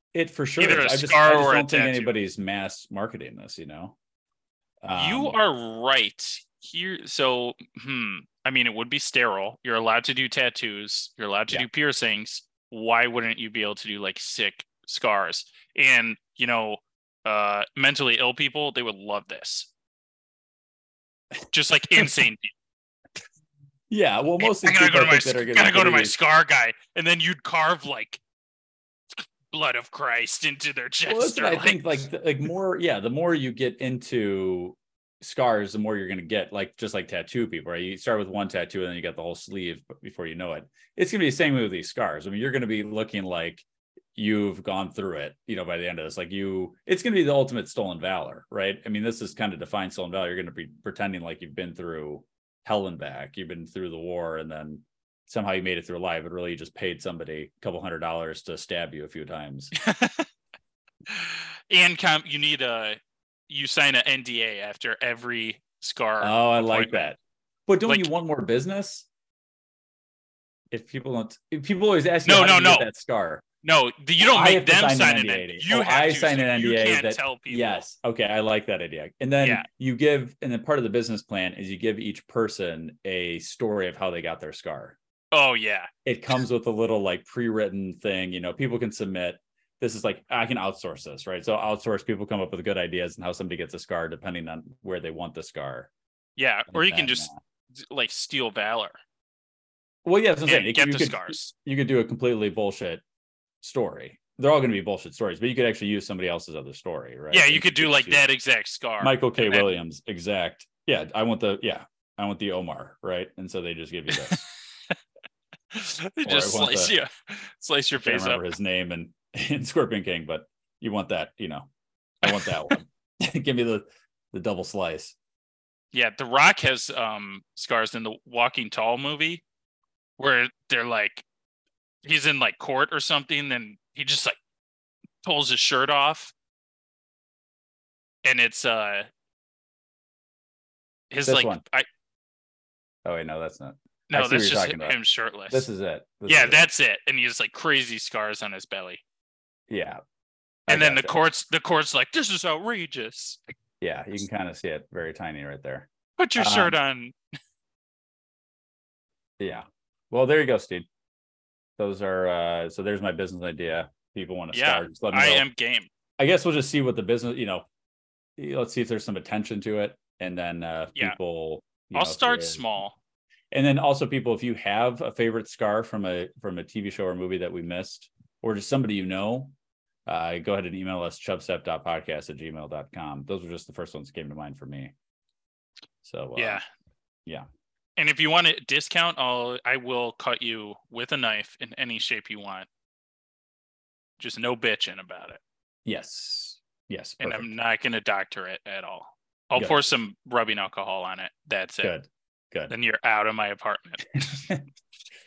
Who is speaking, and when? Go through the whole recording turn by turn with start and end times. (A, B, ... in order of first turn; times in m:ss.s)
0:00.1-0:04.0 A
0:00.6-0:02.1 B
0:04.8-0:05.4 A
0:05.0-0:19.7 B
0:21.5-0:22.5 B
0:23.9-0:26.2 A
0:24.4-0:28.2 B
0:29.2-0:32.0 B
0:31.1-0:59.7 A
0:59.8-1:00.3 B
1:01.1-1:03.0 B
1:03.5-1:07.1 B
1:06.2-1:09.1 A
1:10.7-1:13.4 A
1:12.2-1:12.9 B
1:13.6-1:17.9 B
1:14.2-1:25.0 A
1:25.3-1:25.9 B
1:26.0-1:35.9 A
1:36.4-1:39.0 B
1:36.7-1:37.4 A
1:40.0-1:43.0 A
1:40.5-1:41.5 B
1:43.6-1:48.3 A
1:47.3-1:49.8 B
1:49.0-1:54.4 A
1:54.1-1:54.9 B
1:55.7-1:58.5 B
1:56.2-1:56.9 A
1:58.0-2:01.7 A
2:02.2-2:05.2 A
2:02.2-2:02.8 B
2:05.9-2:09.4 B
2:10.2-2:11.2 B
2:12.0-2:14.4 B
2:15.2-2:16.3 B
2:18.2-2:19.1 B
2:21.1-2:21.9 B
2:21.2-2:21.6 A
2:23.0-2:25.0 A
2:24.1-2:25.7 B
2:25.5-2:26.7 A
2:26.3-2:29.0 B
2:29.7-2:30.0 A
2:30.7-2:31.2 A
2:30.7-2:33.4 B
2:33.8-2:36.8 A
2:36.2-2:37.2 B
2:39.4-2:40.9 A
2:41.8-2:45.5 A
2:44.5-2:45.9 B
2:46.2-2:47.7 A
2:48.4-2:52.7 A
2:51.9-2:53.0 B
2:53.5-2:59.5 A
3:00.1-3:04.9 A
3:06.0-3:06.6 A
3:06.4-3:06.6 B
3:08.0-3:12.7 B
3:14.2-3:15.4 B
3:15.8-3:17.5 A
3:17.2-3:21.9 B
3:19.6-3:19.8 A
3:21.8-3:22.7 A
3:22.7-3:24.4 B
3:24.3-3:24.6 A